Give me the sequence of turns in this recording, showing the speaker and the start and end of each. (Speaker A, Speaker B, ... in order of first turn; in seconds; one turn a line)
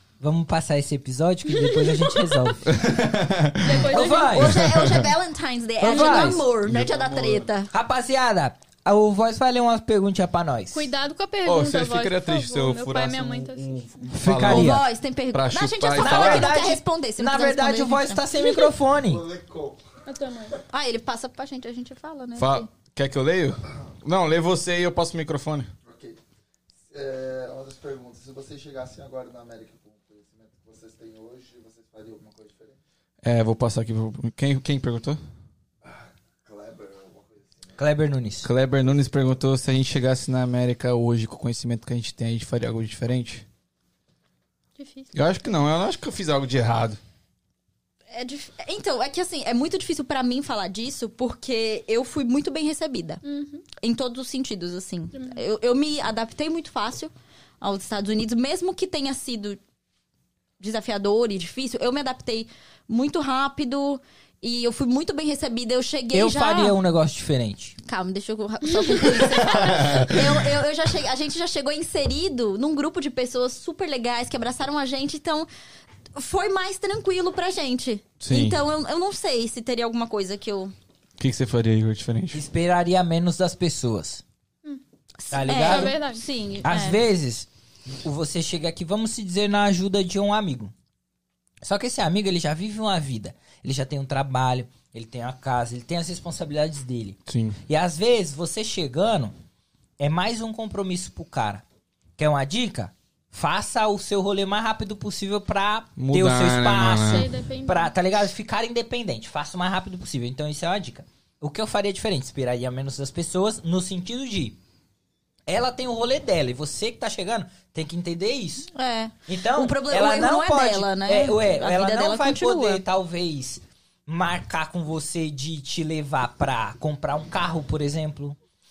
Speaker A: 0.2-2.7
Speaker B: 1.5-2.5
Speaker C: 2.6-3.9
Speaker B: 3.6-4.6
Speaker A: 3.8-4.6
Speaker D: 4.2-7.7
Speaker C: 4.5-5.1
Speaker A: 5.8-6.5
Speaker C: 6.2-7.5
Speaker A: 7.7-10.9
Speaker B: 10.7-14.1
Speaker C: 11.4-16.6
Speaker A: 14.1-14.8
Speaker D: 14.4-18.3
Speaker A: 15.9-19.2
Speaker B: 18.4-18.7
Speaker E: 19.0-19.8
Speaker B: 20.1-20.6
Speaker D: 20.7-22.7
Speaker C: 22.4-25.7
Speaker E: 25.9-26.2
Speaker E: 26.9-32.8
Speaker C: 33.2-35.2
Speaker E: 35.9-37.8
Speaker A: 37.8-38.5
Speaker C: 38.4-43.5
Speaker B: 44.8-45.1
Speaker C: 45.1-47.0
Speaker D: 48.1-53.2
Speaker B: 53.2-53.7
Speaker D: 53.8-59.6
Speaker B: 55.1-55.4
Speaker D: 60.6-66.8
Speaker A: 66.1-67.8
Speaker D: 67.9-75.5
Speaker C: 69.5-70.4
Speaker D: 76.1-80.7
Speaker C: 78.2-78.6
Speaker C: 81.2-82.5
Speaker A: 82.3-84.2
Speaker D: 85.2-87.0
Speaker A: 85.3-86.0
Speaker B: 85.4-86.2
Speaker A: 86.6-87.5
Speaker A: 88.0-90.7
Speaker A: 91.6-99.3
Speaker C: 97.3-97.6
Speaker A: 100.0-101.6
Speaker A: 102.2-114.6
Speaker C: 106.0-107.3
Speaker B: 107.0-107.9
Speaker A: 115.5-118.7
Speaker D: 118.7-122.8
Speaker A: 119.3-128.4